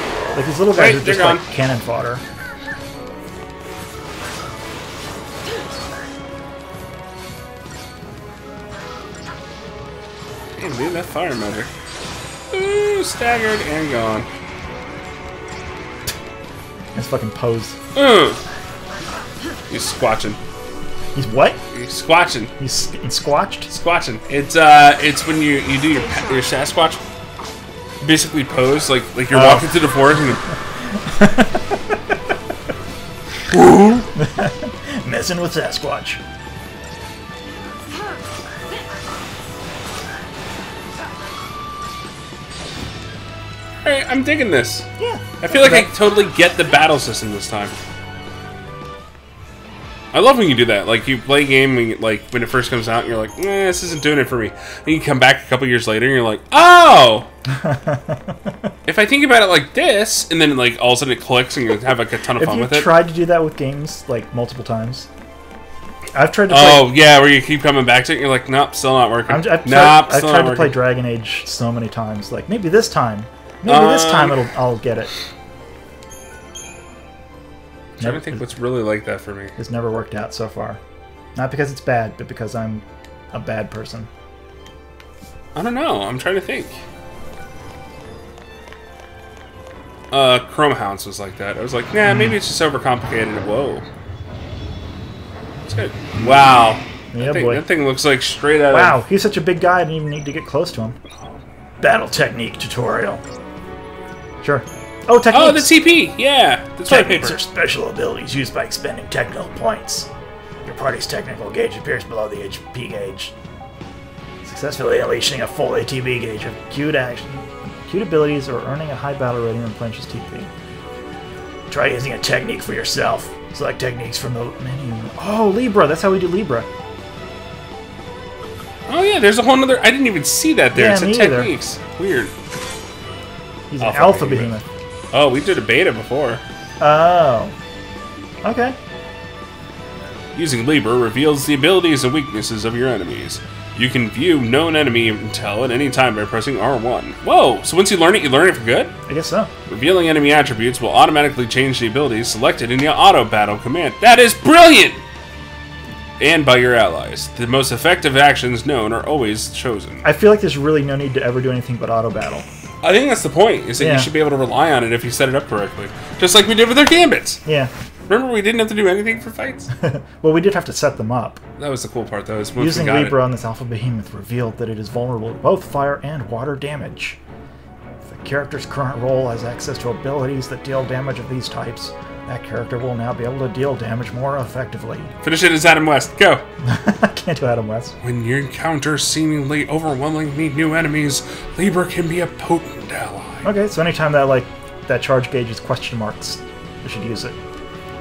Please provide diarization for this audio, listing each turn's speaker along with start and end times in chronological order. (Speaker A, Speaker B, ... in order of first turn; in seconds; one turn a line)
Speaker A: 0.3-2.2
Speaker B: 0.7-1.4
Speaker B: 10.6-11.7
Speaker B: 12.5-14.3
Speaker A: 16.9-17.8
Speaker B: 17.9-18.4
Speaker B: 19.7-20.4
Speaker A: 21.1-21.6
Speaker B: 21.7-22.5
Speaker A: 22.6-23.7
Speaker B: 23.7-27.0
Speaker B: 28.0-30.4
Speaker A: 29.3-29.8
Speaker A: 30.9-32.1
Speaker B: 33.5-34.0
Speaker A: 34.0-36.2
Speaker B: 43.8-44.9
Speaker A: 45.0-45.9
Speaker B: 45.4-47.8
Speaker B: 50.1-57.3
Speaker A: 57.5-58.5
Speaker B: 58.9-62.9
Speaker A: 62.4-65.1
Speaker A: 66.1-66.9
Speaker B: 66.5-70.8
Speaker A: 69.3-75.1
Speaker B: 73.7-74.4
Speaker B: 78.0-79.6
Speaker A: 78.0-78.4
Speaker A: 79.6-80.8
Speaker A: 81.3-84.1
Speaker B: 85.5-86.8
Speaker B: 90.1-93.9
Speaker A: 92.1-92.3
Speaker B: 95.7-99.0
Speaker A: 97.1-97.6
Speaker A: 98.7-101.0
Speaker A: 101.8-103.2
Speaker A: 104.4-105.7
Speaker B: 105.3-107.4
Speaker A: 106.9-110.1
Speaker A: 110.6-113.3
Speaker A: 114.4-120.5
Speaker A: 121.7-126.7
Speaker B: 128.9-132.3
Speaker A: 130.7-131.5
Speaker A: 133.7-134.7
Speaker B: 133.8-134.5
Speaker B: 135.1-136.4
Speaker A: 136.8-137.6
Speaker A: 138.4-138.8
Speaker B: 140.3-148.9
Speaker A: 149.1-149.5
Speaker B: 149.7-155.0
Speaker B: 156.2-160.1
Speaker A: 160.0-162.4
Speaker B: 162.8-167.4
Speaker A: 163.8-164.1
Speaker A: 167.4-167.7
Speaker B: 168.1-169.7
Speaker A: 169.8-171.4
Speaker B: 171.6-173.2
Speaker A: 172.6-177.2
Speaker A: 178.0-185.1
Speaker B: 185.2-186.4
Speaker A: 186.6-187.9
Speaker B: 188.0-193.4
Speaker A: 193.4-197.3